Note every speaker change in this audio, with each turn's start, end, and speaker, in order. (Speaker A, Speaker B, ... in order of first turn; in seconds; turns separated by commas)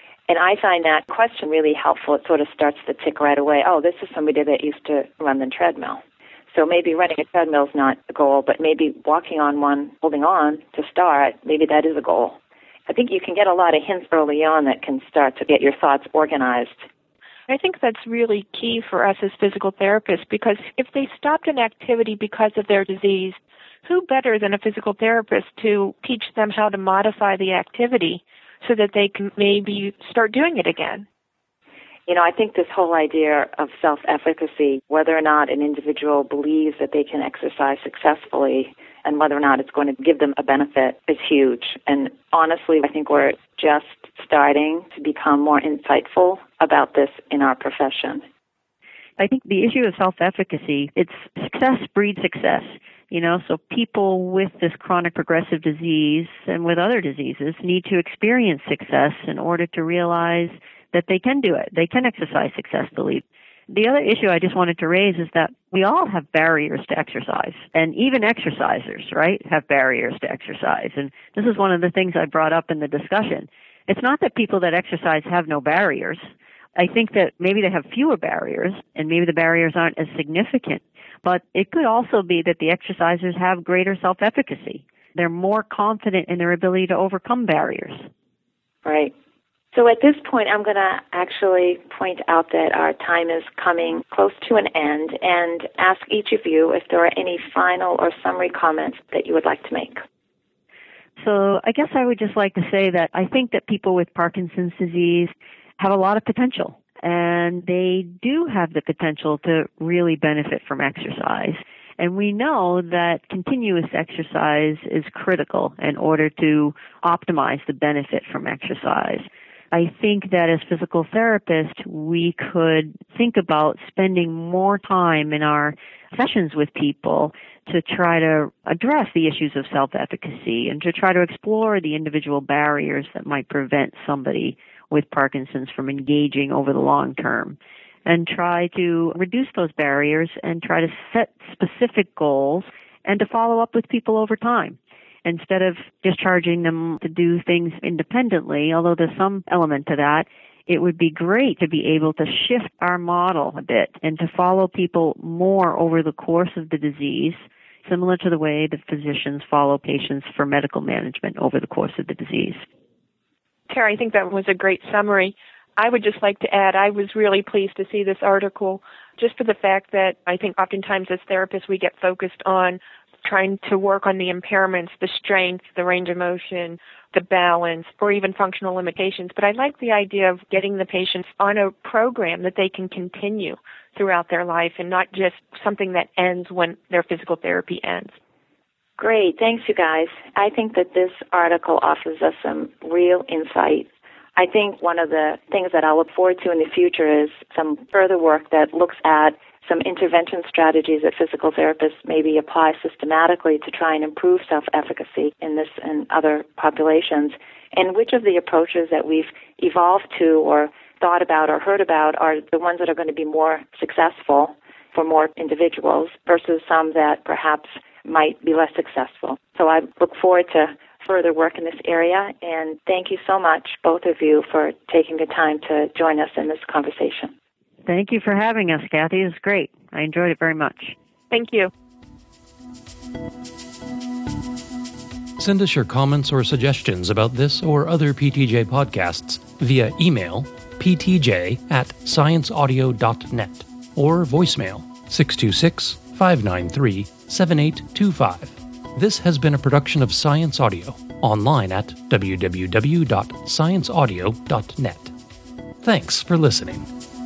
Speaker A: 0.3-12.4, Speaker A: 12.9-16.8, Speaker B: 17.5-31.1, Speaker A: 32.1-48.2, Speaker C: 49.2-76.2, Speaker C: 76.8-88.0, Speaker A: 88.8-89.1, Speaker A: 89.7-100.0, Speaker C: 101.2-162.6, Speaker B: 163.7-188.1, Speaker A: 189.0-227.3, Speaker C: 227.8-230.9, Speaker B: 231.3-231.7, Speaker D: 235.4-255.1, Speaker D: 255.8-256.9